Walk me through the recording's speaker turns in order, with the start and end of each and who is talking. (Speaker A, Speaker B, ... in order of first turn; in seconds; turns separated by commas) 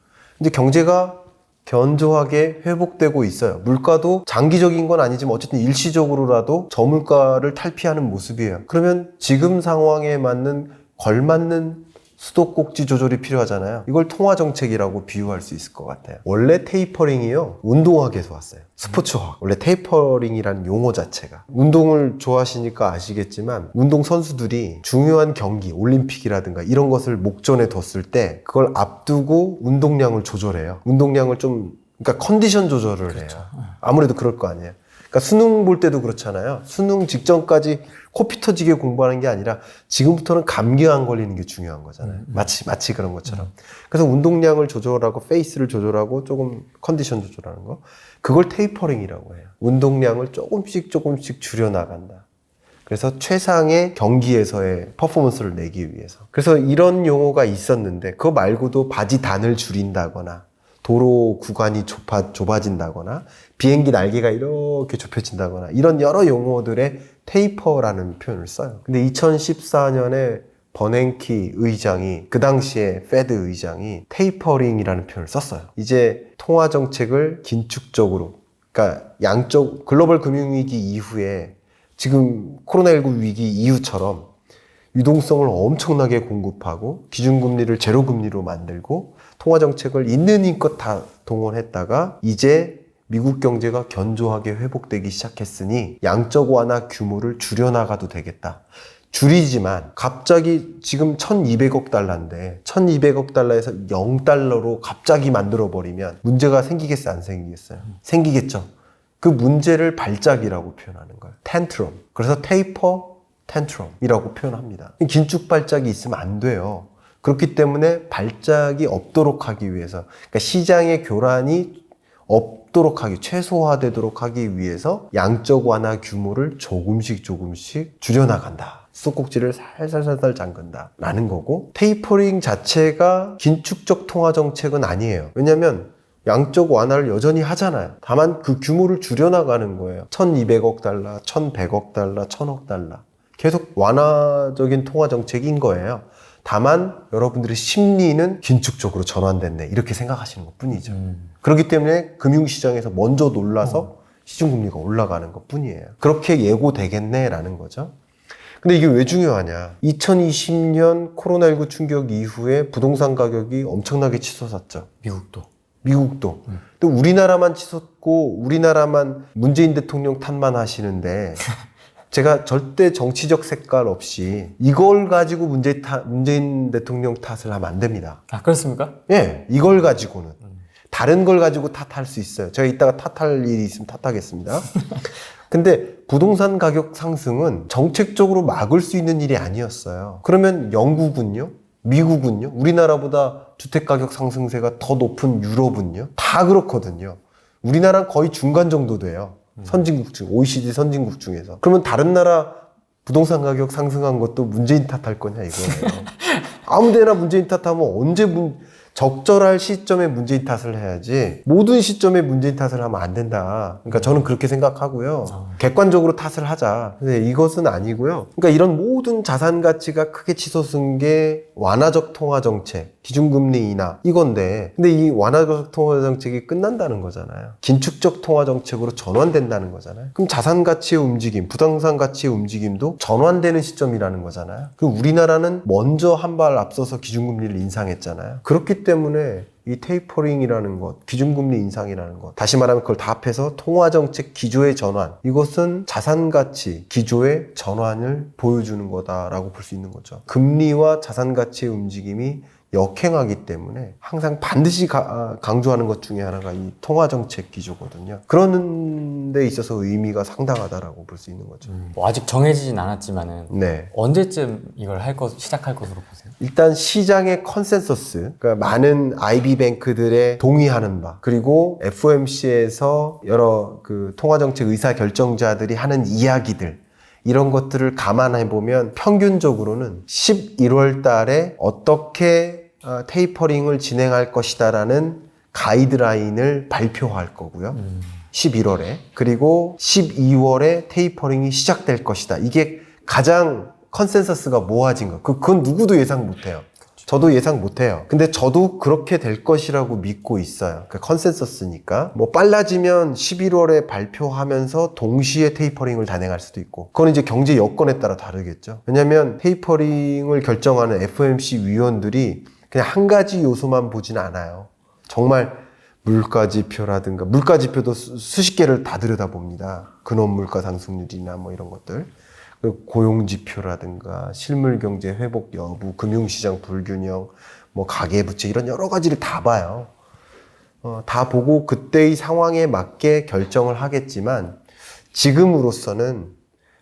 Speaker A: 0.4-52.3, Speaker B: 33.1-33.8, Speaker B: 42.0-42.4, Speaker A: 52.9-84.3, Speaker A: 84.9-108.7, Speaker A: 109.2-157.9, Speaker B: 150.9-151.3, Speaker A: 158.6-164.9, Speaker B: 165.0-165.5, Speaker A: 165.8-171.4, Speaker A: 172.1-178.2, Speaker B: 178.3-179.0, Speaker A: 179.1-180.4, Speaker A: 180.9-184.7, Speaker A: 185.5-206.1, Speaker B: 205.8-206.4, Speaker A: 206.7-261.7, Speaker B: 213.9-214.2, Speaker B: 215.3-215.6, Speaker B: 261.7-266.4, Speaker A: 263.5-263.9, Speaker A: 266.4-287.8, Speaker B: 287.8-288.2, Speaker A: 288.3-329.9, Speaker A: 330.8-334.6, Speaker A: 335.1-336.4